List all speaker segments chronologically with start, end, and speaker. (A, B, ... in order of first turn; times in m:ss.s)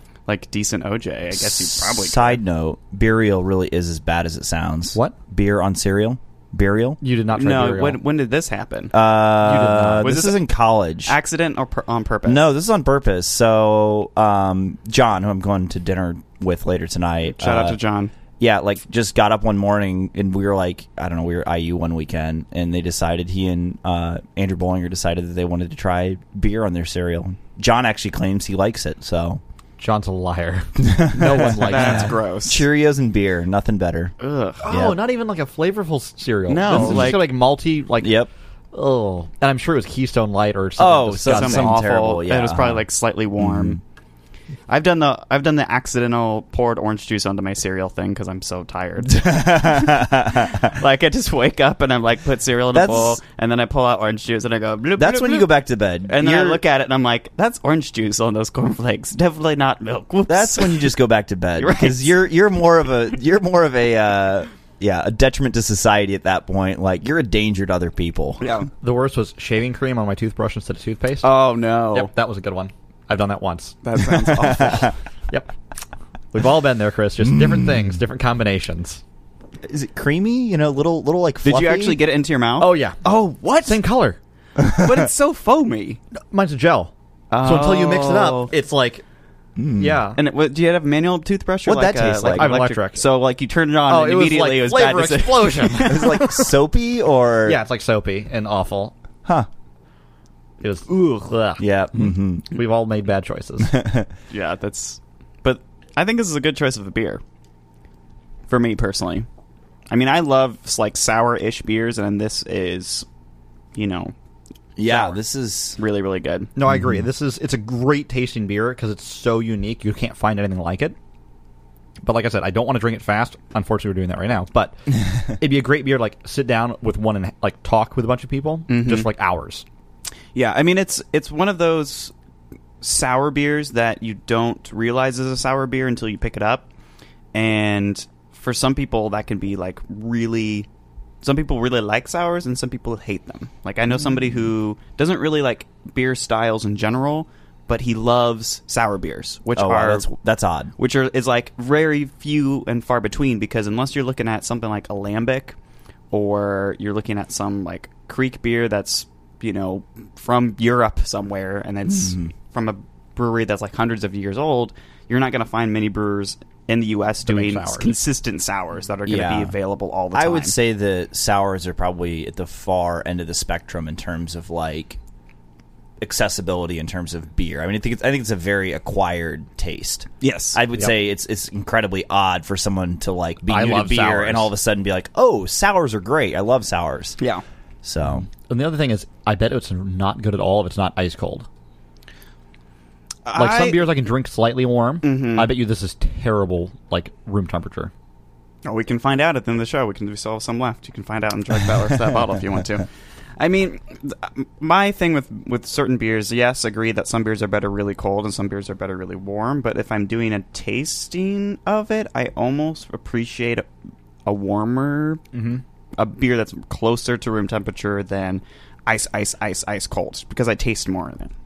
0:00.3-0:02.4 A
0:01.3-0:07.0 B
0:07.0-0:08.0 C
0:07.3-0:08.9 A
0:08.9-0:11.1 B
0:09.4-0:10.3 C
0:10.0-0:10.4 A
0:11.0-0:12.5 A
0:12.2-0:17.8 B
0:17.3-0:18.1 A
0:18.4-0:29.4 B
0:29.8-0:32.2 C
0:30.8-0:34.1 B
0:31.4-0:32.6 A
0:34.2-0:34.6 A
0:34.6-0:41.8 C
0:34.6-0:35.0 B
0:36.5-0:37.2 A
0:36.7-0:37.2 B
0:38.0-0:38.3 B
0:40.8-0:42.8 B
0:41.2-0:43.8 A
0:43.4-0:43.8 B
0:44.7-1:00.9 A
0:49.1-0:50.7 B
0:52.7-0:53.2 B
0:55.0-0:56.6 B
1:00.3-1:08.4 B
1:01.6-1:02.1 A
1:08.4-1:08.7 A
1:08.8-1:14.7 C
1:11.2-1:12.1 A
1:13.8-1:14.9 A
1:16.3-1:19.0 C
1:19.6-1:22.0 B
1:21.4-1:23.8 A
1:22.6-1:23.0 C
1:23.6-1:24.2 C
1:24.6-1:26.0 A
1:26.3-1:29.0 C
1:27.3-1:28.5 A
1:29.6-1:30.0 B
1:29.8-1:30.2 C
1:30.1-1:36.2 A
1:31.6-1:32.5 B
1:32.3-1:33.1 C
1:33.9-1:36.5 C
1:35.8-1:37.6 B
1:37.4-1:38.9 C
1:40.6-1:43.7 C
1:41.6-1:42.5 B
1:43.6-1:44.1 B
1:44.3-1:47.2 A
1:48.5-1:49.3 A
1:49.9-1:53.0 A
1:53.7-1:54.1 A
1:54.8-1:55.8 B
1:54.8-1:55.2 A
1:55.8-1:56.5 A
1:56.6-2:01.0 C
2:02.0-2:09.6 C
2:08.7-2:09.1 A
2:10.3-2:12.1 A
2:12.8-2:16.7 A
2:17.3-2:20.7 A
2:21.2-2:30.1 A
2:29.5-2:30.7 B
2:30.8-2:35.6 A
2:36.1-2:50.6 A
2:41.9-2:42.3 B
2:47.2-2:47.9 C
2:49.0-2:49.6 B
2:50.1-2:55.0 B
2:56.0-3:07.2 B
3:00.2-3:00.6 A
3:03.5-3:04.5 C
3:07.8-3:08.2 B
3:08.2-3:11.5 C
3:13.2-3:13.9 A
3:13.3-3:17.9 C
3:15.0-3:15.6 A
3:18.6-3:33.7 A
3:34.2-3:35.2 A
3:35.3-3:35.6 C
3:36.0-3:41.3 A